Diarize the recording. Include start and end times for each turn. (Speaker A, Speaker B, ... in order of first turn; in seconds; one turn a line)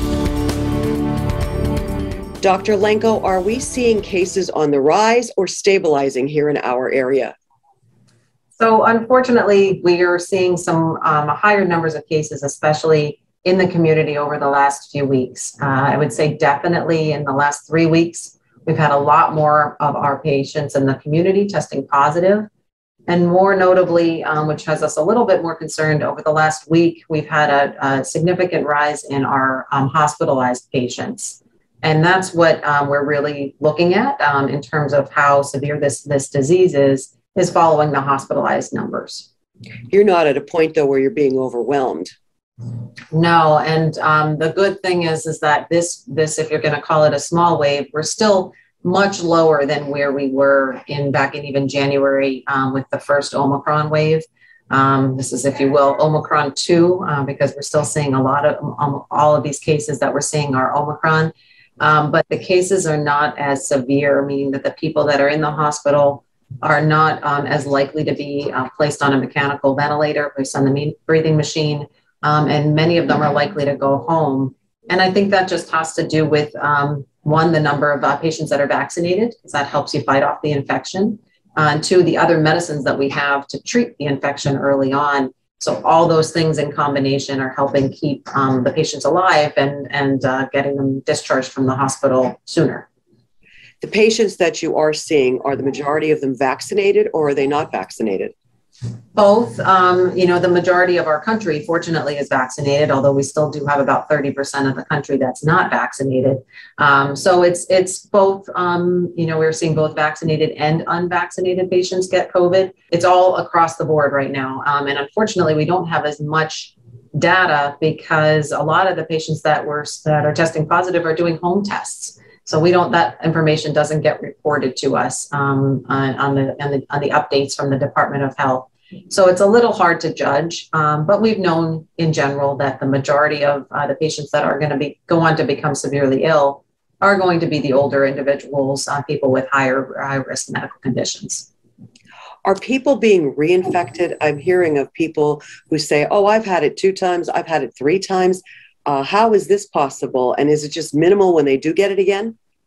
Speaker A: 2.4-7.3
Speaker B: 8.6-22.5
Speaker B: 23.1-39.3
Speaker A: 39.9-42.1
Speaker B: 43.1-92.9
Speaker A: 93.8-98.3
Speaker B: 99.1-141.5
Speaker A: 142.4-152.3